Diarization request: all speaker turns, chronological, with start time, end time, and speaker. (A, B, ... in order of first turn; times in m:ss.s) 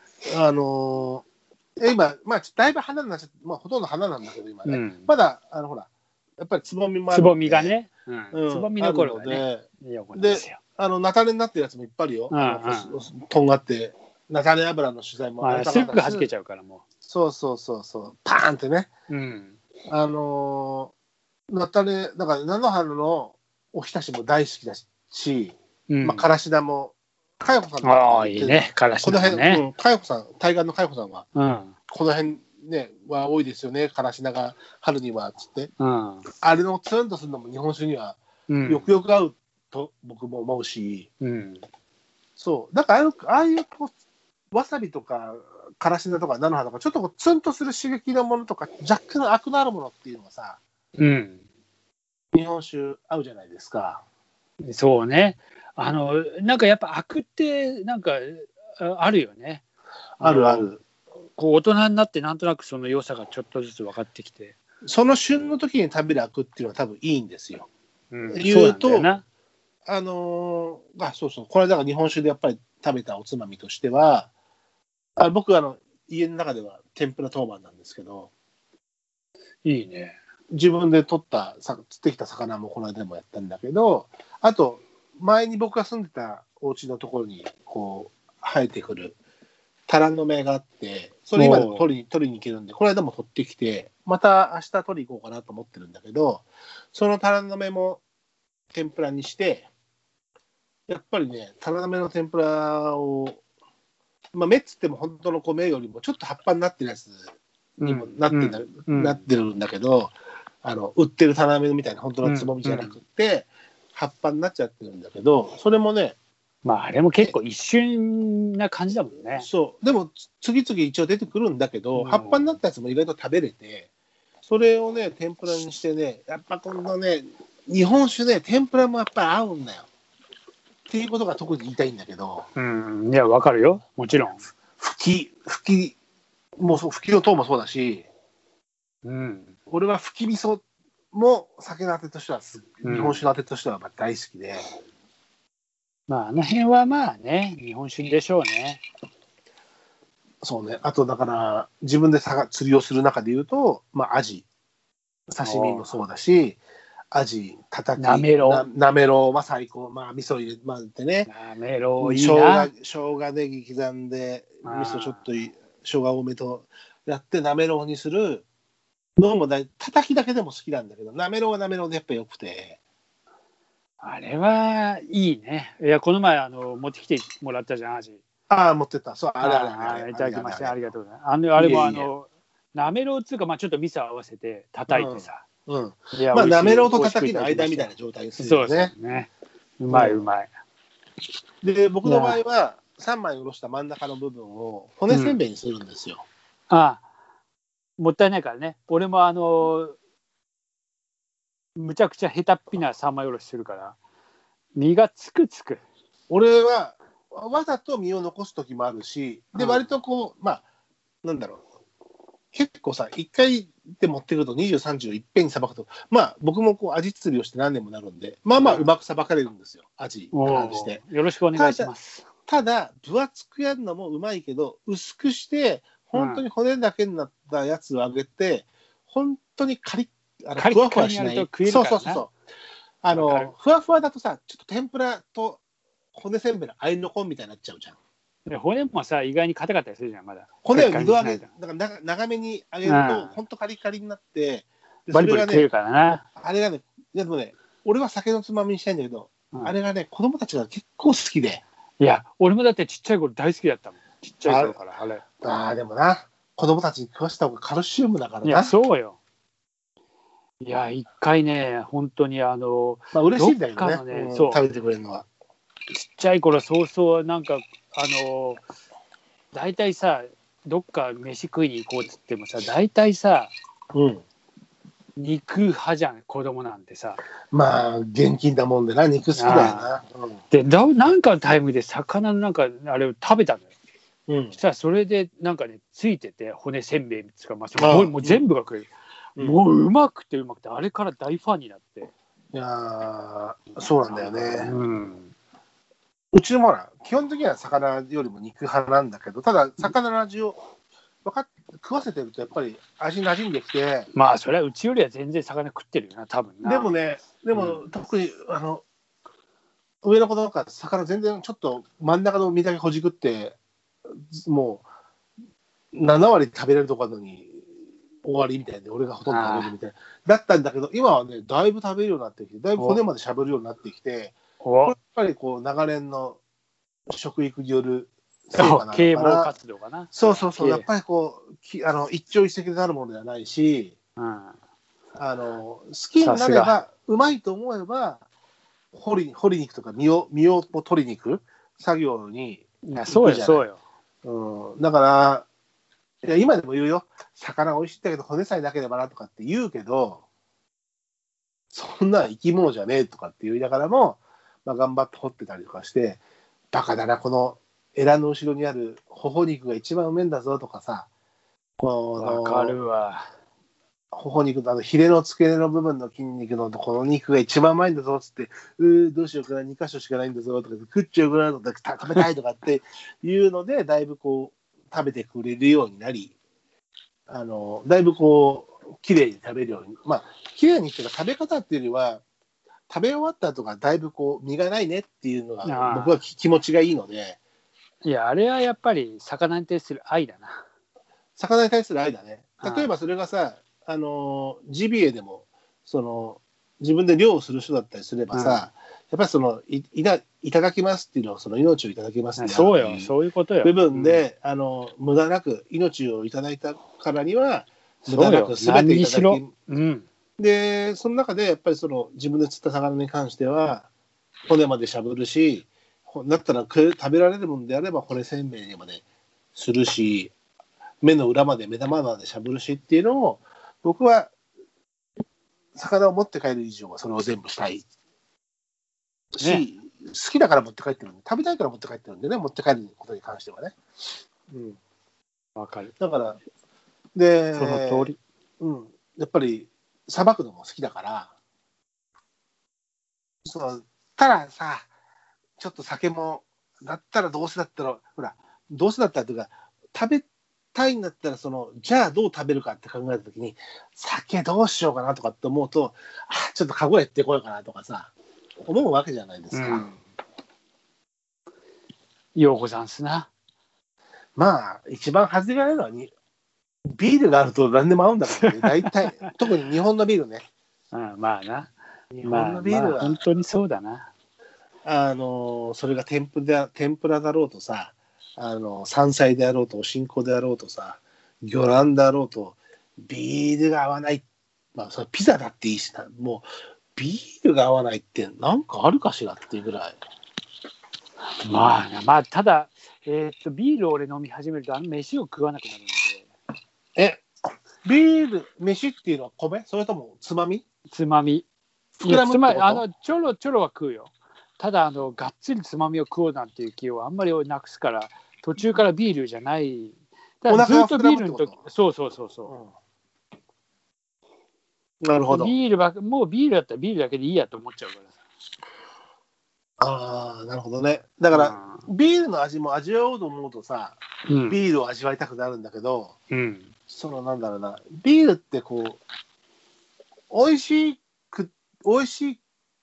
0:00.2-0:01.2 A
0:01.8-0:05.9 A
0:04.6-0:05.1 B
0:06.4-0:07.7 A
0:07.1-0:10.6 B
0:08.3-0:16.3 A
0:12.3-0:13.0 B
0:15.4-0:16.8 B
0:17.0-0:18.9 A
0:19.1-0:19.6 B
0:19.9-0:20.9 A
0:21.5-0:31.2 A
0:25.9-0:26.3 B
0:27.8-0:29.6 B
0:31.3-0:31.7 B
0:31.9-0:35.7 A
0:35.8-0:36.2 B
0:36.4-0:41.1 A
0:38.5-0:38.9 B
0:41.2-0:41.6 B
0:42.4-0:43.9 A
0:44.5-0:50.6 A
0:51.0-0:51.4 B
0:52.3-0:54.0 A
0:54.7-0:59.6 B
1:00.2-1:00.7 B
1:00.2-1:00.8 A
1:01.4-1:04.6 B
1:04.8-1:07.7 A
1:08.1-1:09.2 B
1:08.3-1:09.1 A
1:09.8-1:14.3 A
1:15.2-1:18.3 A
1:19.6-1:20.2 B
1:20.5-1:29.2 A
1:29.9-1:38.0 A
1:31.4-1:31.9 B
1:38.7-1:39.7 A
1:40.9-1:43.4 A
1:44.3-1:47.2 A
1:47.8-1:49.2 B
1:47.8-1:56.1 A
1:52.2-1:53.0 B
1:56.6-1:59.5 B
1:59.3-2:03.9 A
2:01.9-2:02.5 B
2:04.4-2:09.9 A
2:10.9-2:12.5 A
2:12.6-2:14.4 B
2:14.8-2:16.0 A
2:16.6-2:18.1 A
2:19.0-2:19.5 B
2:19.7-2:24.7 A
2:22.8-2:23.2 B
2:26.1-2:28.8 B
2:30.4-2:34.4 A
2:35.3-2:36.6 A
2:35.4-2:35.9 B
2:37.1-2:41.3 A
2:38.0-2:38.6 B
2:41.3-2:42.7 B
2:42.0-2:48.4 A
2:44.6-2:45.2 B
2:49.2-2:52.8 A
2:54.0-2:58.2 B
2:58.5-3:00.8 A
2:59.4-3:05.4 B
3:01.6-3:02.1 A
3:04.9-3:08.9 A
3:06.1-3:10.5 B
3:09.9-3:10.2 A
3:11.6-3:16.2 A
3:12.0-3:12.4 B
3:15.1-3:15.4 B
3:16.7-3:17.0 B
3:18.0-3:20.0 B
3:21.8-3:24.0 B
3:24.8-3:25.8 B
3:26.3-3:30.6 A
3:29.5-3:29.9 B
3:31.2-3:31.6 A
3:32.5-3:41.0 A
3:38.6-3:38.9 B
3:40.3-3:42.2 B
3:41.5-3:41.9 A
3:42.5-3:52.3 A
3:46.1-3:46.4 B
3:50.6-3:52.2 B
3:53.0-3:55.6 A
3:53.1-3:53.5 B
3:56.1-3:58.0 A
3:58.5-4:01.5 B
4:00.6-4:05.7 A
4:02.8-4:03.4 B
4:05.1-4:06.2 B
4:06.4-4:11.6 A
4:12.0-4:15.2 B
4:14.4-4:14.8 A
4:15.4-4:18.7 A
4:18.4-4:19.2 B
4:20.6-4:24.6 B
4:23.1-4:25.2 A
4:25.9-4:28.6 B
4:29.5-4:33.5 B
4:33.9-4:34.2 A
4:35.2-4:37.2 B
4:37.5-4:40.4 A
4:39.4-4:39.9 B
4:40.5-4:43.7 B
4:44.3-4:44.6 A
4:44.5-4:52.1 B
4:47.8-4:48.4 A
4:52.5-4:54.7 A
4:53.8-4:55.3 B
4:56.3-5:00.6 A
5:01.2-5:04.1 A
5:04.1-5:06.9 B
5:06.6-5:08.8 A
5:07.5-5:07.8 B
5:10.0-5:13.6 A
5:14.1-5:14.8 A
5:15.9-5:17.6 A
5:18.2-5:26.4 A
5:19.3-5:19.7 B
5:22.8-5:23.0 B
5:24.6-5:24.9 B
5:27.1-5:29.5 A
5:28.5-5:30.8 B
5:30.1-5:33.9 A
5:34.2-5:34.6 B
5:35.2-5:38.2 A
5:36.2-5:36.8 B
5:38.9-5:43.6 A
5:42.9-5:43.8 B
5:44.2-5:45.4 A
5:46.2-5:50.2 A
5:51.7-5:56.2 A
5:56.7-6:01.1 A
6:01.8-6:02.8 A
6:02.2-6:03.3 B
6:04.1-6:16.3 A
6:17.3-6:22.2 A
6:22.9-6:27.4 A
6:25.6-6:26.2 B
6:28.0-6:30.6 B
6:31.4-6:43.1 A
6:32.6-6:32.9 B
6:38.3-6:38.7 B
6:42.4-6:44.2 B
6:43.6-6:49.5 A
6:48.0-6:50.1 B
6:50.4-6:53.9 A
6:54.5-6:59.0 A
6:59.5-7:00.3 A
7:01.0-7:04.3 A
7:05.7-7:07.8 A
7:09.3-7:13.8 A
7:09.4-7:09.6 B
7:14.5-7:14.8 A
7:15.6-7:15.9 B
7:16.0-7:16.4 A
7:17.1-7:21.3 A
7:17.5-7:18.2 B
7:23.4-7:24.9 A
7:25.6-7:38.1 A
7:38.6-7:40.0 A
7:39.5-7:39.9 B
7:42.3-7:43.3 B
7:44.4-7:46.1 A
7:46.9-7:50.4 A
7:48.3-7:49.3 B
7:50.9-7:54.1 B
7:52.1-7:53.2 A
7:54.8-8:04.2 A
8:04.7-8:10.0 A
8:11.4-8:16.3 B
8:17.0-8:17.2 A
8:17.8-8:20.6 A
8:20.9-8:21.4 B
8:22.0-8:22.8 A
8:22.0-8:32.5 B
8:30.5-8:31.6 A
8:32.5-8:32.7 A
8:35.0-8:35.5 A
8:35.3-8:38.1 B
8:39.8-8:46.2 A
8:41.3-8:41.8 B
8:44.2-8:44.6 B
8:46.3-8:46.7 B
8:46.9-8:49.0 A
8:50.3-8:52.4 A